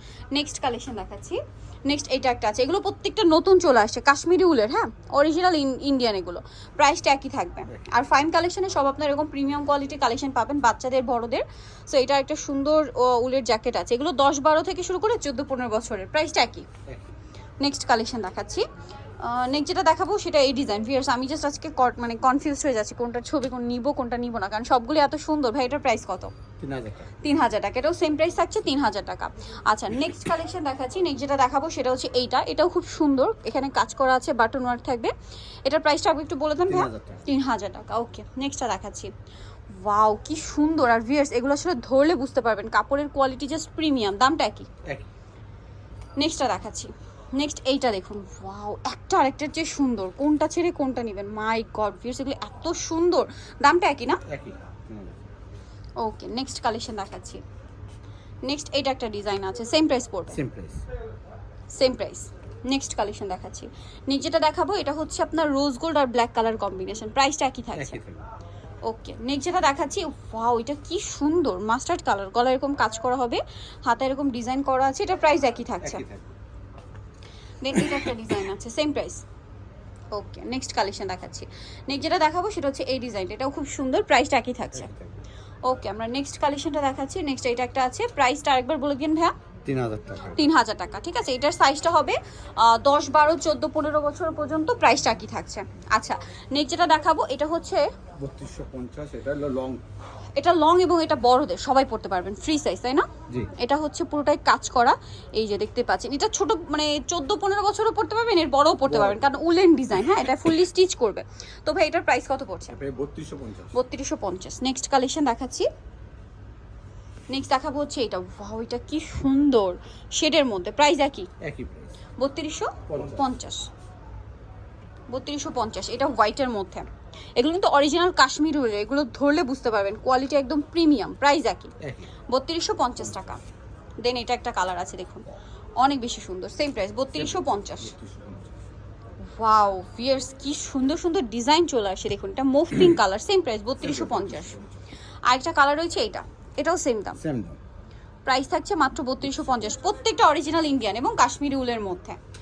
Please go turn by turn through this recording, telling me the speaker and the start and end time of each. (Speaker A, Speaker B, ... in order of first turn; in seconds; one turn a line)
Speaker A: 0.3-16.7
Speaker A: 17.6-18.6
Speaker A: 19.2-26.3
Speaker B: 26.6-27.1
Speaker A: 27.2-35.1
Speaker A: 35.6-39.1
Speaker B: 36.7-37.2
Speaker A: 39.7-44.7
Speaker A: 46.2-54.2
Speaker B: 54.3-55.3
Speaker A: 56.0-57.4
Speaker A: 58.5-60.4
Speaker B: 60.3-60.9
Speaker A: 61.7-68.0
Speaker B: 67.7-68.3
Speaker A: 68.8-76.0
Speaker B: 75.8-76.3
Speaker A: 77.6-79.2
Speaker A: 80.1-84.9
Speaker B: 84.7-85.2
Speaker A: 85.6-89.3
Speaker B: 89.6-90.4
Speaker A: 90.3-97.9
Speaker B: 98.2-99.8
Speaker A: 100.3-112.8
Speaker B: 108.9-109.2
Speaker B: 112.7-113.7
Speaker A: 113.7-115.7
Speaker A: 117.3-121.3
Speaker B: 121.4-121.9
Speaker A: 122.2-123.7
Speaker B: 122.9-123.3
Speaker A: 125.1-131.7
Speaker B: 131.8-132.1
Speaker A: 132.3-133.4
Speaker A: 134.0-135.2
Speaker A: 135.8-137.9
Speaker B: 137.1-138.6
Speaker A: 139.3-144.6
Speaker B: 143.8-144.8
Speaker A: 145.2-147.2
Speaker B: 147.2-147.6
Speaker A: 148.2-152.2